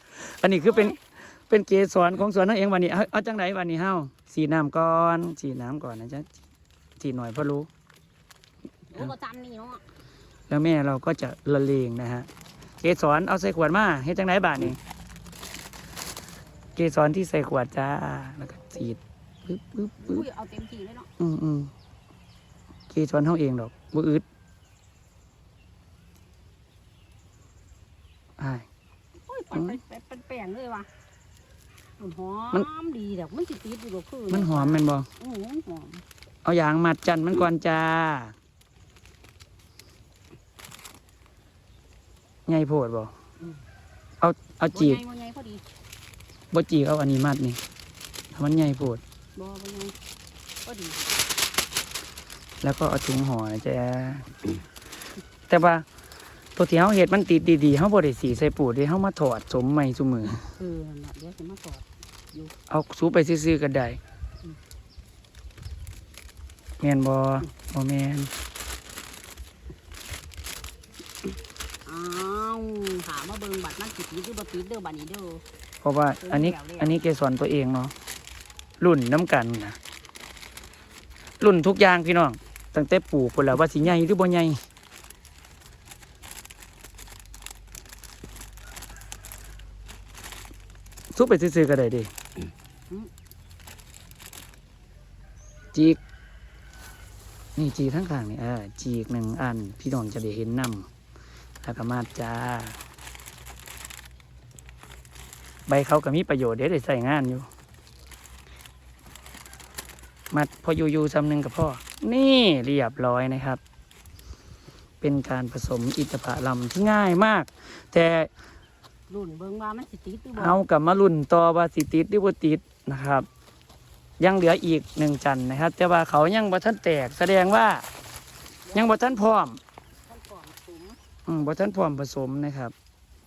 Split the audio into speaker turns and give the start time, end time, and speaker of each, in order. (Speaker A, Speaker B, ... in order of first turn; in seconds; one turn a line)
Speaker A: 0.1-1.0
Speaker B: 0.7-0.9
Speaker A: 1.5-6.3
Speaker A: 7.0-7.7
Speaker B: 8.9-9.8
Speaker A: 10.5-12.3
Speaker A: 12.8-14.8
Speaker A: 16.8-20.2
Speaker B: 20.0-21.1
Speaker A: 21.2-21.7
Speaker A: 22.9-24.2
Speaker A: 28.4-28.6
Speaker B: 29.3-30.9
Speaker B: 32.0-36.0
Speaker A: 34.3-35.1
Speaker A: 36.4-38.3
Speaker A: 42.5-43.1
Speaker A: 44.2-45.0
Speaker B: 44.7-45.6
Speaker A: 46.5-47.6
Speaker A: 48.3-49.0
Speaker B: 49.3-50.0
Speaker B: 50.6-51.1
Speaker A: 52.6-54.4
Speaker A: 55.5-55.9
Speaker A: 56.5-60.5
Speaker B: 60.5-62.5
Speaker A: 62.7-64.0
Speaker A: 66.8-68.3
Speaker B: 71.8-75.4
Speaker A: 75.8-77.9
Speaker B: 76.2-77.0
Speaker A: 78.8-79.8
Speaker A: 81.4-84.6
Speaker A: 91.1-92.1
Speaker A: 95.7-96.0
Speaker A: 97.5-100.9
Speaker A: 101.6-102.8
Speaker A: 105.7-107.5
Speaker A: 110.3-113.6
Speaker A: 115.0-118.3
Speaker B: 119.1-120.6
Speaker A: 120.3-123.3
Speaker A: 124.2-127.8
Speaker B: 128.7-129.2
Speaker A: 128.7-129.6
Speaker B: 130.1-131.0
Speaker A: 131.2-132.7